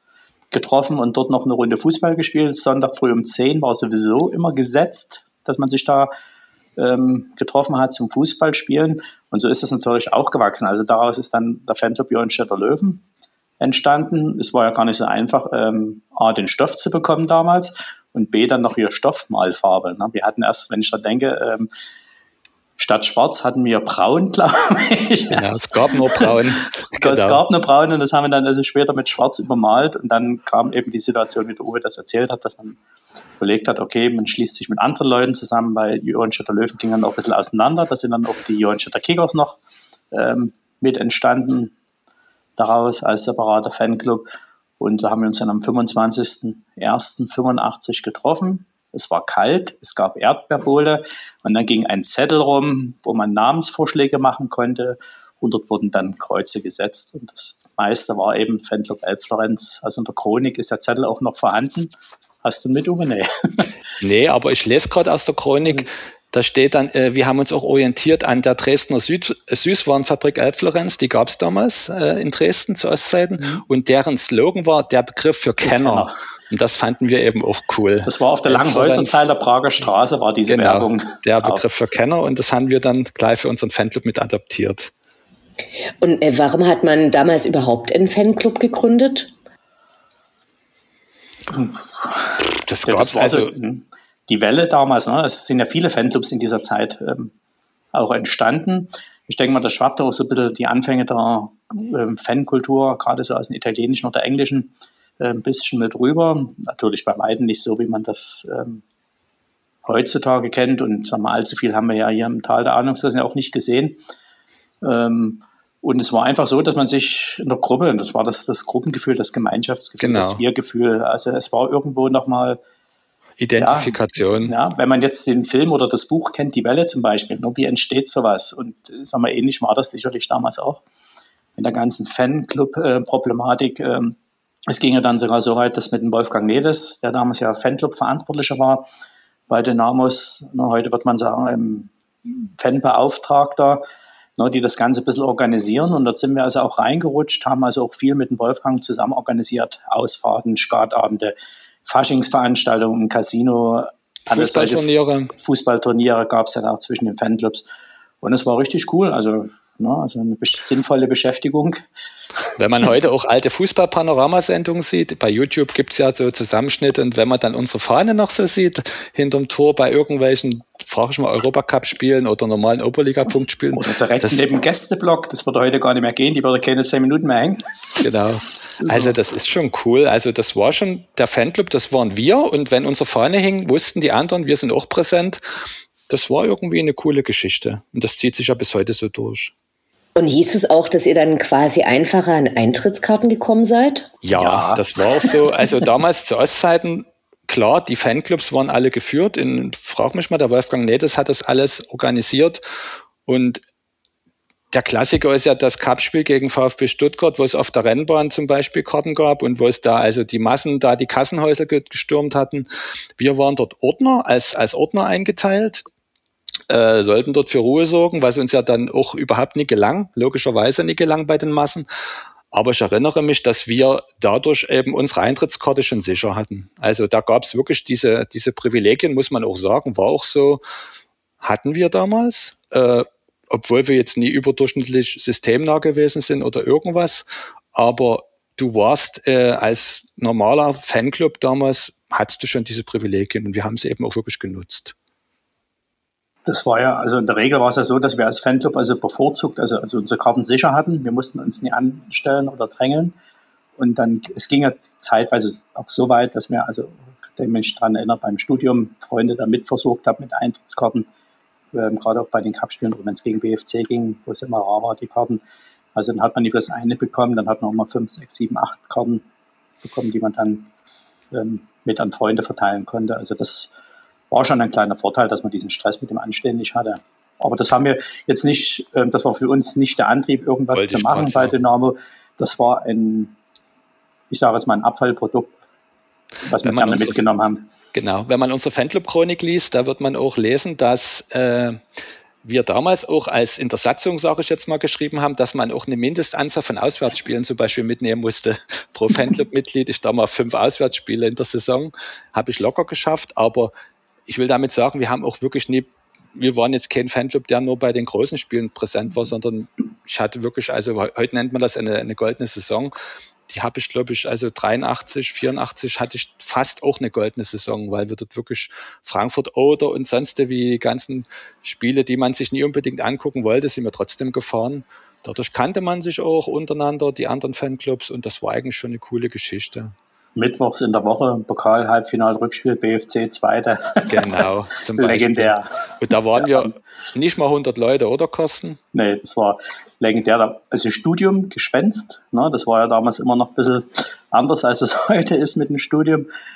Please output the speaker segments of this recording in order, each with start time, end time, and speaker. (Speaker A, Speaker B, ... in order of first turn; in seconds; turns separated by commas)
Speaker A: 0.5-6.1, Speaker A: 6.8-13.0, Speaker A: 13.6-21.7, Speaker A: 22.8-32.8, Speaker B: 25.3-27.4, Speaker A: 33.4-39.6, Speaker A: 40.1-41.7, Speaker A: 42.6-44.3, Speaker A: 44.8-61.9, Speaker A: 62.4-63.7, Speaker B: 64.0-79.2, Speaker A: 75.6-76.2, Speaker A: 78.0-81.6, Speaker B: 80.5-84.9, Speaker C: 86.0-89.3, Speaker A: 91.5-97.3, Speaker B: 92.4-93.5, Speaker A: 97.9-108.8, Speaker A: 109.8-114.0, Speaker A: 114.8-122.6, Speaker B: 120.0-120.4, Speaker B: 123.4-124.5, Speaker A: 123.6-130.8, Speaker A: 131.6-134.2, Speaker A: 134.7-138.8, Speaker A: 139.5-143.8, Speaker A: 144.4-151.3, Speaker A: 151.8-157.7, Speaker B: 154.3-155.3, Speaker A: 158.2-161.8, Speaker B: 162.6-174.4, Speaker A: 173.7-178.0, Speaker B: 178.0-185.4, Speaker A: 178.8-179.2, Speaker B: 186.1-189.5, Speaker C: 190.2-194.1, Speaker B: 194.2-203.6, Speaker A: 194.3-195.3, Speaker B: 204.7-215.8, Speaker B: 216.7-221.9, Speaker B: 222.5-230.6, Speaker B: 231.4-244.9, Speaker A: 246.4-253.2, Speaker A: 253.8-261.1, Speaker A: 261.7-265.4, Speaker A: 265.9-269.2, Speaker A: 269.8-270.7, Speaker A: 271.3-273.7, Speaker A: 274.3-283.3, Speaker B: 280.7-281.5, Speaker A: 284.3-285.5, Speaker A: 286.4-287.6, Speaker B: 286.6-287.2, Speaker B: 287.9-291.8, Speaker B: 292.4-303.7, Speaker B: 304.3-312.9, Speaker B: 313.5-329.9, Speaker A: 330.4-335.7, Speaker B: 334.1-338.8, Speaker A: 336.4-336.7, Speaker A: 338.9-346.3